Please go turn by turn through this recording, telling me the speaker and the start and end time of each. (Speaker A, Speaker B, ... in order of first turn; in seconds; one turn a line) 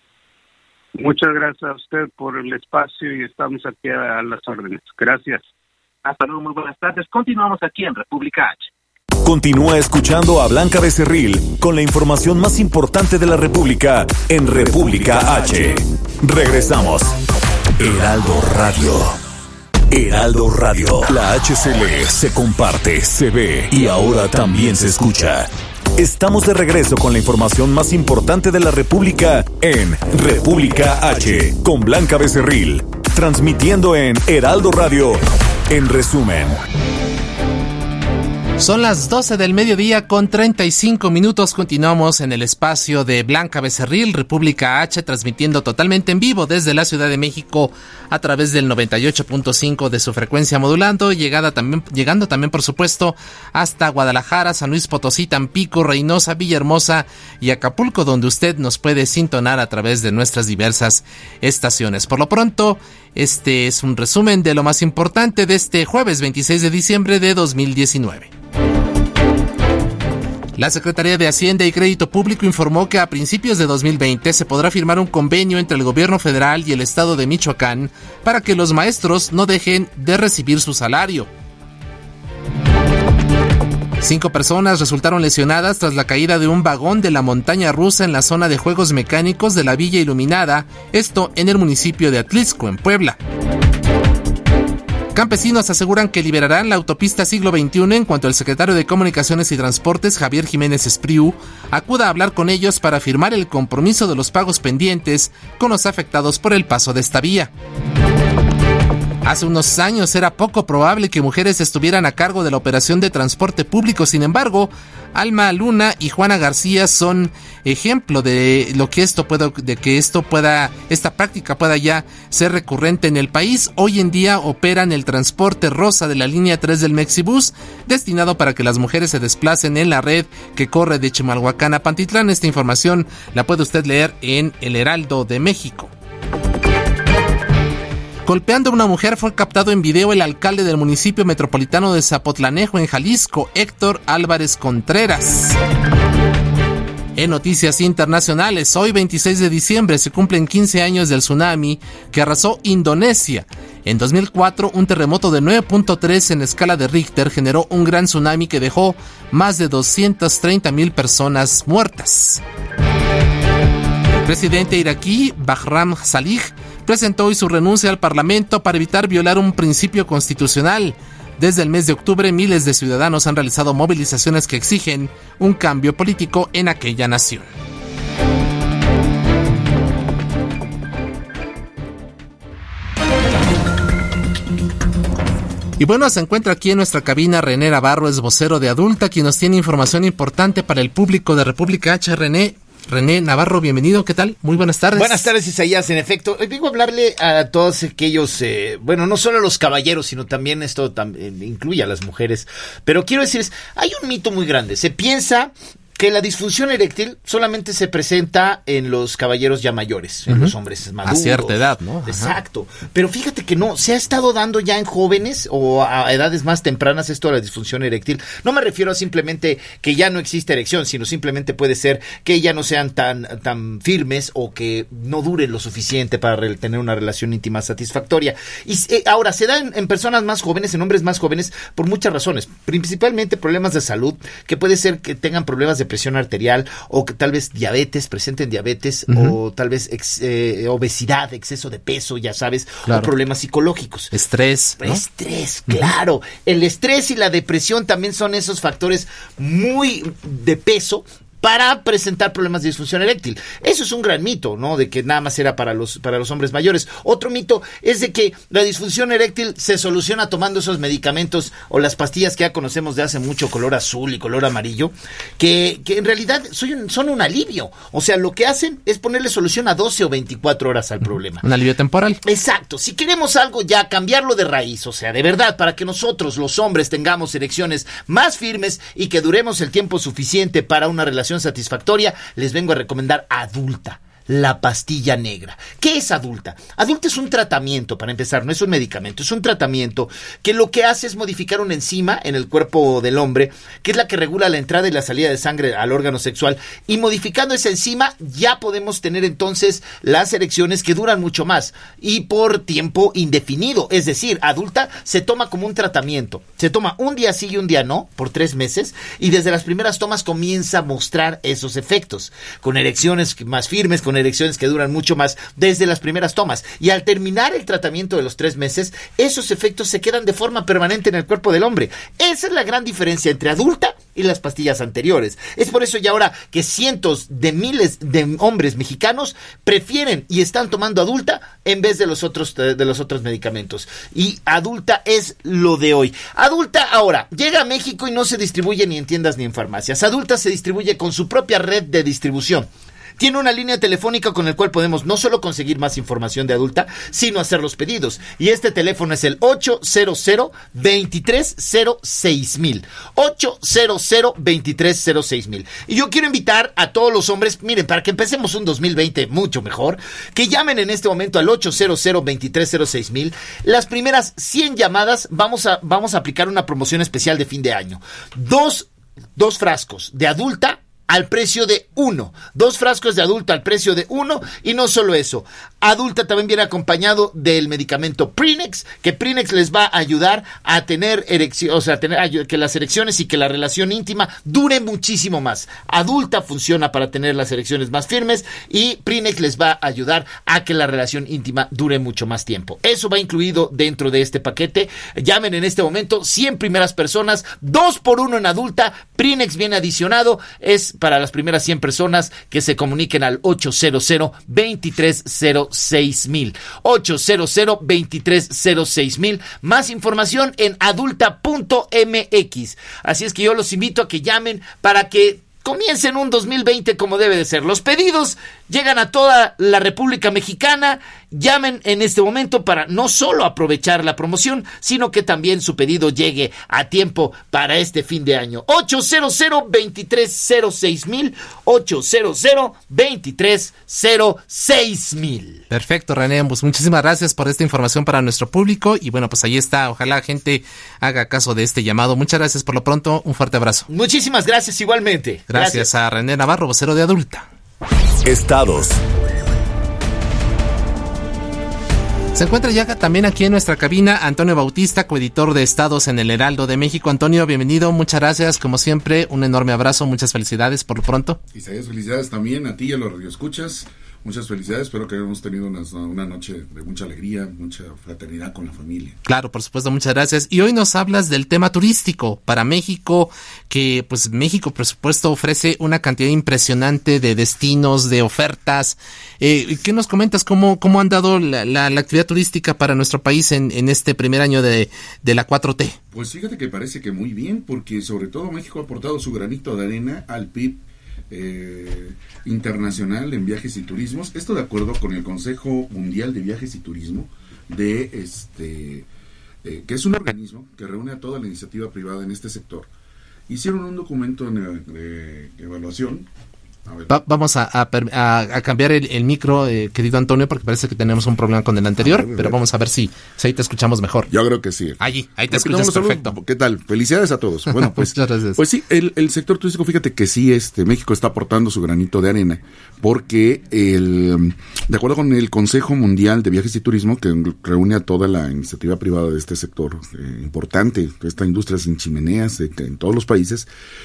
Speaker A: 0.9-5.5
Speaker B: 6.0-8.7
Speaker C: 9.2-17.1
Speaker C: 17.8-19.2
Speaker C: 19.9-36.6
Speaker D: 38.6-68.3
Speaker D: 70.5-81.3
Speaker D: 84.0-93.2
Speaker D: 95.1-107.5
Speaker D: 109.2-135.9
Speaker D: 138.2-145.6
Speaker D: 147.2-162.4
Speaker D: 164.2-177.5
Speaker D: 185.8-195.3
Speaker E: 194.9-244.1
Speaker D: 210.3-210.5
Speaker D: 211.0-212.3
Speaker D: 239.1-239.4
Speaker D: 242.8-243.1
Speaker D: 244.1-245.0
Speaker E: 244.8-271.4
Speaker D: 271.4-272.2
Speaker E: 272.2-342.7
Speaker E: 343.2-435.6
Speaker D: 435.7-443.9
Speaker E: 443.9-445.9
Speaker D: 445.5-447.4
Speaker C: 448.2-449.0
Speaker D: 452.3-461.4
Speaker F: 461.5-469.2
Speaker D: 469.2-485.9
Speaker F: 486.1-490.8
Speaker F: 491.3-499.1
Speaker F: 499.6-502.9
Speaker F: 503.5-506.2
Speaker F: 506.9-507.2
Speaker D: 507.1-514.3
Speaker F: 512.0-512.6
Speaker F: 514.3-533.7
Speaker D: 515.0-516.4
Speaker D: 517.7-518.6